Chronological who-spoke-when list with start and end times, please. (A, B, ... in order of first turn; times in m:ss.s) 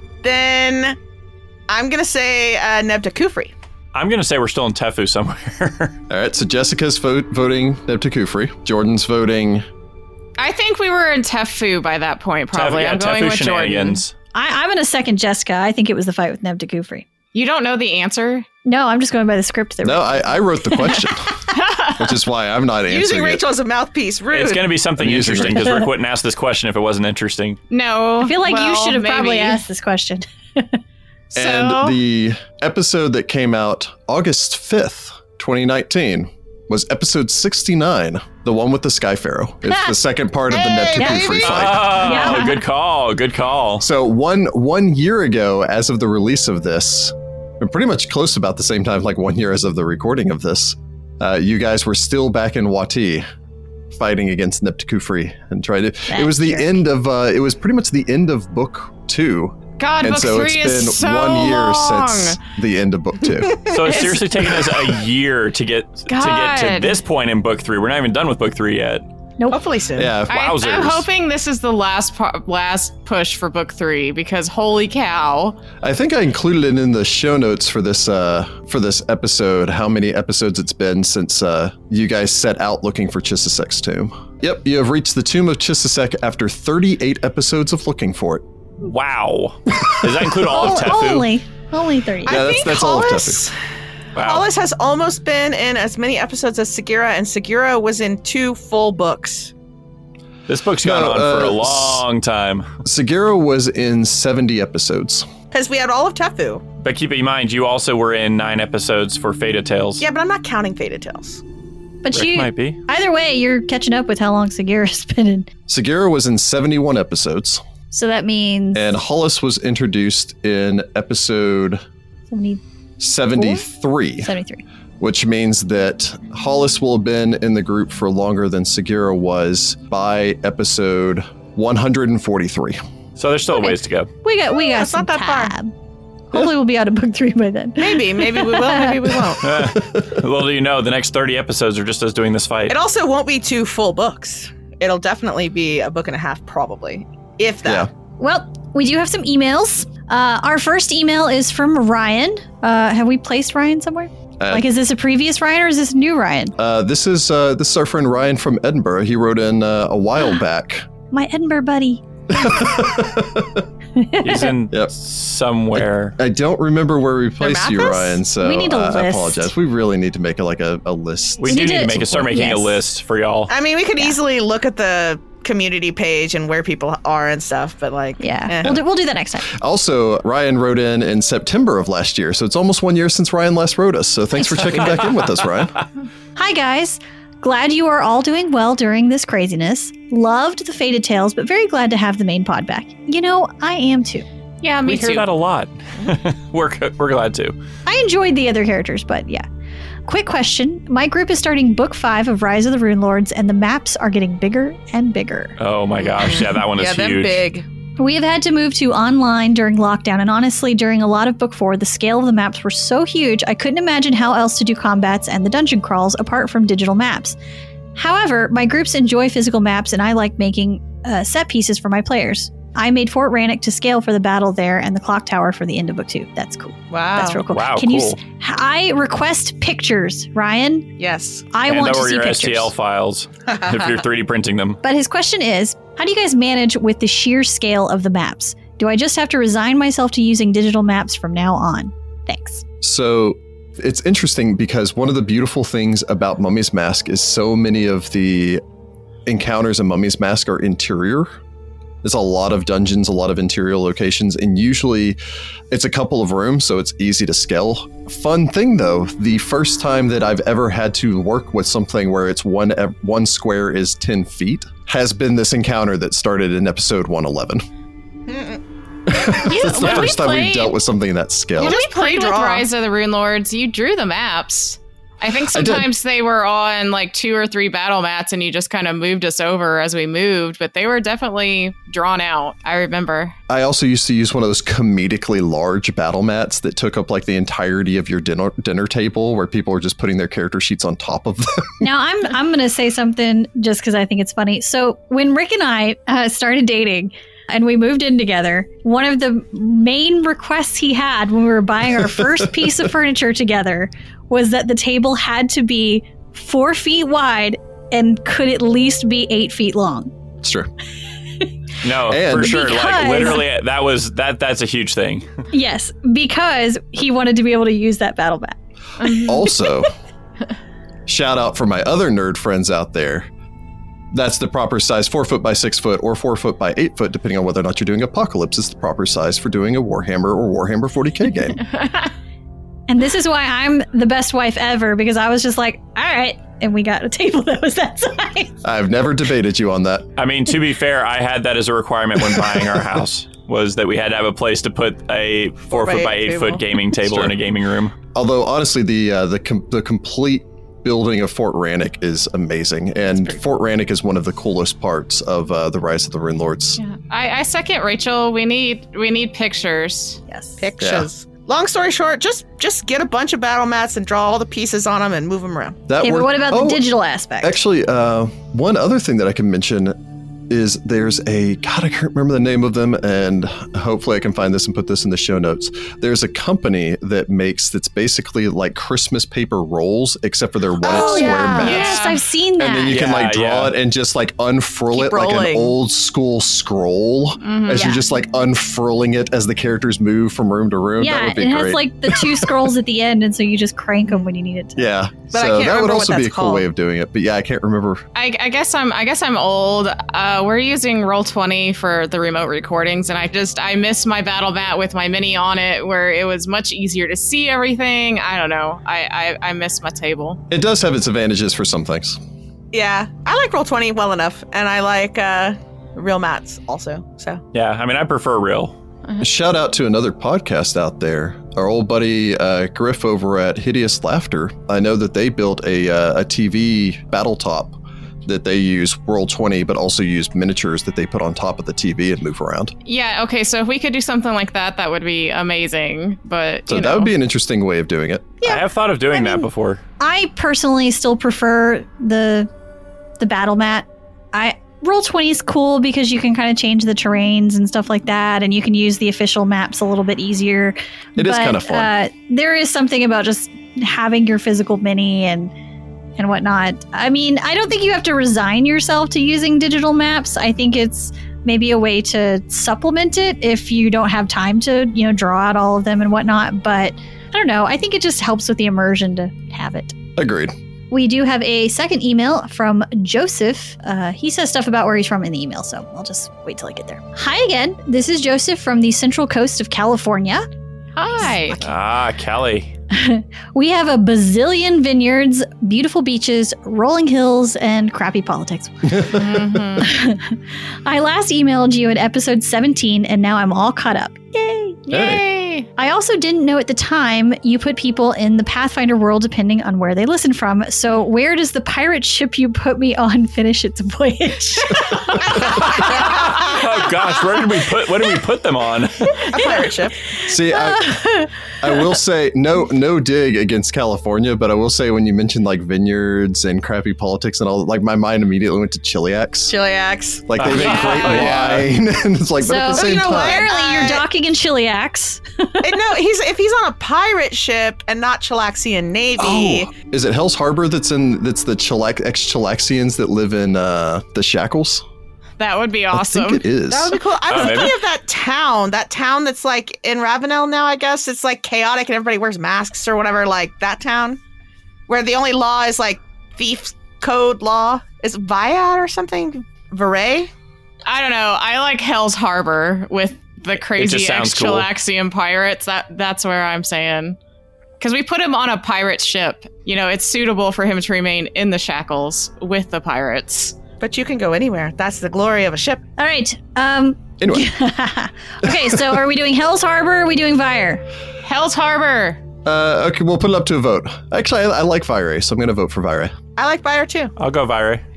0:00.2-0:01.0 A
0:01.7-0:03.5 A
0:03.9-0:06.0 B
0:06.1-0:09.6 C
0:10.4-0:14.0 D
0:12.5-0:14.1 B
0:14.3-0:17.1 E
0:17.3-0:18.5 D
0:18.6-0:20.4 E
0:19.8-0:23.4 C
0:21.5-0:22.0 D
0:22.9-0:24.7 A
0:24.3-0:27.6 B
0:25.0-0:25.9 C
0:27.7-0:29.6 D
0:28.2-0:30.8 E
0:31.3-0:32.0 D
0:31.3-0:42.0 C
0:39.7-0:40.0 E
0:40.5-0:42.5 A
0:41.0-0:42.6 E
0:41.4-0:43.8 B
0:43.8-0:53.2 C
0:53.9-1:03.7 C
0:56.1-0:56.8 E
0:59.8-1:02.4 D
1:03.7-1:09.0 B
1:03.7-1:04.1 A
1:06.1-1:07.0 D
1:09.5-1:10.2 A
1:09.9-1:10.4 C
1:10.3-1:15.6 D
1:10.3-1:11.1 B
1:15.8-1:28.4 C
1:28.8-1:31.3 B
1:29.8-1:30.2 C
1:30.4-1:32.5 E
1:32.2-1:33.5 A
1:32.2-1:33.5 C
1:34.1-1:34.5 B
1:34.2-1:39.5 A
1:40.5-1:42.7 B
1:40.8-1:42.0 C
1:42.8-1:45.3 C
1:45.5-1:46.6 A
1:46.8-1:50.0 B
1:50.0-1:51.4 A
1:52.0-1:55.5 E
1:52.1-1:52.8 B
1:55.7-1:57.6 C
1:57.9-1:59.0 E
1:58.7-2:01.8 C
2:02.3-2:02.6 E
2:03.0-2:04.3 C
2:03.4-2:03.7 E
2:04.2-2:04.6 E
2:05.0-2:12.8 C
2:13.2-2:14.1 B
2:13.6-2:15.7 E
2:14.5-2:15.5 A
2:16.3-2:19.2 E
2:17.8-2:19.6 A
2:19.4-2:22.8 B
2:19.5-2:20.2 C
2:22.7-2:27.9 A
2:28.2-2:36.5 E
2:34.4-2:34.6 C
2:36.6-2:40.8 C
2:41.1-2:42.6 E
2:42.3-2:43.6 C
2:44.0-2:44.5 E
2:44.2-2:46.2 B
2:45.7-2:52.3 C
2:47.4-2:48.2 A
2:48.4-2:49.5 E
2:51.4-2:53.5 B
2:51.5-2:52.8 E
2:53.5-2:58.8 A
2:58.2-2:59.5 E
2:59.5-3:05.7 C
3:04.5-3:04.8 E
3:06.4-3:14.2 E
3:14.6-3:15.3 D
3:14.8-3:17.6 B
3:17.8-3:19.4 E
3:20.1-3:25.6 E
3:25.6-3:27.4 B
3:26.0-3:27.6 A
3:28.0-3:37.4 E
3:38.0-3:50.9 E
3:46.9-3:47.4 A
3:47.5-3:48.2 B
3:51.0-3:51.5 A
3:51.5-3:52.7 E
3:51.7-3:54.8 B
3:54.8-4:02.6 E
4:02.8-4:08.6 C
4:09.2-4:11.3 C
4:12.0-4:15.2 C
4:15.7-4:27.6 C
4:28.3-4:28.6 A
4:29.0-4:31.8 C
4:29.5-4:30.6 D
4:29.5-4:30.6 E
4:29.8-4:30.1 B
4:31.6-4:32.7 A
4:31.6-4:43.4 D
4:35.5-4:35.9 C
4:43.5-4:51.9 C
4:51.8-5:10.1 E
5:02.2-5:02.6 C
5:10.4-5:10.7 C
5:11.8-5:15.3 B
5:12.1-5:12.6 C
5:12.4-5:13.4 E
5:15.5-5:19.6 E
5:19.0-5:19.4 D
5:19.1-5:19.9 C
5:21.1-5:23.3 C
5:24.1-5:31.6 C
5:31.7-5:32.0 D
5:32.9-5:38.6 E
5:38.6-5:40.1 C
5:40.2-5:47.9 B
5:42.4-5:42.6 C
5:45.7-5:46.6 A
5:47.0-5:47.4 C
5:48.1-5:56.8 C
5:56.8-6:00.2 D
6:00.3-6:00.6 E
6:00.6-6:05.8 A
6:00.8-6:01.1 C
6:05.9-6:06.9 C
6:06.0-6:07.6 E
6:07.4-6:22.0 C
6:20.8-6:21.9 A
6:20.8-6:23.0 E
6:21.6-6:22.2 D
6:22.6-6:32.7 C
6:22.9-6:23.7 B
6:24.9-6:25.8 A
6:27.4-6:28.0 D
6:27.7-6:28.0 E
6:31.0-6:34.9 E
6:34.8-6:38.0 C
6:35.3-6:36.6 A
6:38.1-6:50.4 D
6:50.5-6:52.2 C
6:52.7-6:57.4 A
6:57.5-6:58.7 B
6:59.2-7:12.7 C
7:12.8-7:17.1 D
7:16.7-7:18.3 C
7:18.4-7:19.5 E
7:18.4-7:19.8 B
7:20.0-7:22.5 E
7:23.2-7:35.5 E
7:31.2-7:31.9 C
7:36.2-7:50.0 E
7:50.2-7:50.5 C
7:50.9-8:00.4 E
8:01.0-8:01.6 D
8:01.2-8:01.6 E
8:01.6-8:02.7 B
8:02.9-8:09.2 E
8:08.9-8:09.3 C
8:09.1-8:09.9 D
8:09.8-8:14.9 E
8:14.9-8:15.7 D
8:14.9-8:15.2 C
8:15.8-8:25.6 E
8:25.5-8:29.2 B
8:29.3-8:30.0 A
8:30.2-8:31.1 C
8:30.3-8:31.8 E
8:31.6-8:39.5 C
8:39.5-8:41.0 A
8:40.3-8:43.5 C
8:40.4-8:41.7 B
8:42.4-8:45.8 E
8:42.7-8:44.0 A
8:45.6-8:49.7 A
8:49.2-8:54.8 C
8:55.4-8:56.4 D
8:55.9-8:57.0 C
8:56.7-9:04.2 A
8:57.3-8:57.8 B
9:04.9-9:10.3 A
9:10.8-9:17.2 D
9:13.8-9:14.7 B
9:17.8-9:23.6 D
9:23.8-9:25.8 A
9:26.0-9:30.8 E
9:27.2-9:27.5 C
9:28.4-9:29.0 C
9:31.2-9:32.2 D
9:32.4-9:36.1 C
9:36.4-9:37.1 A
9:37.2-9:37.8 B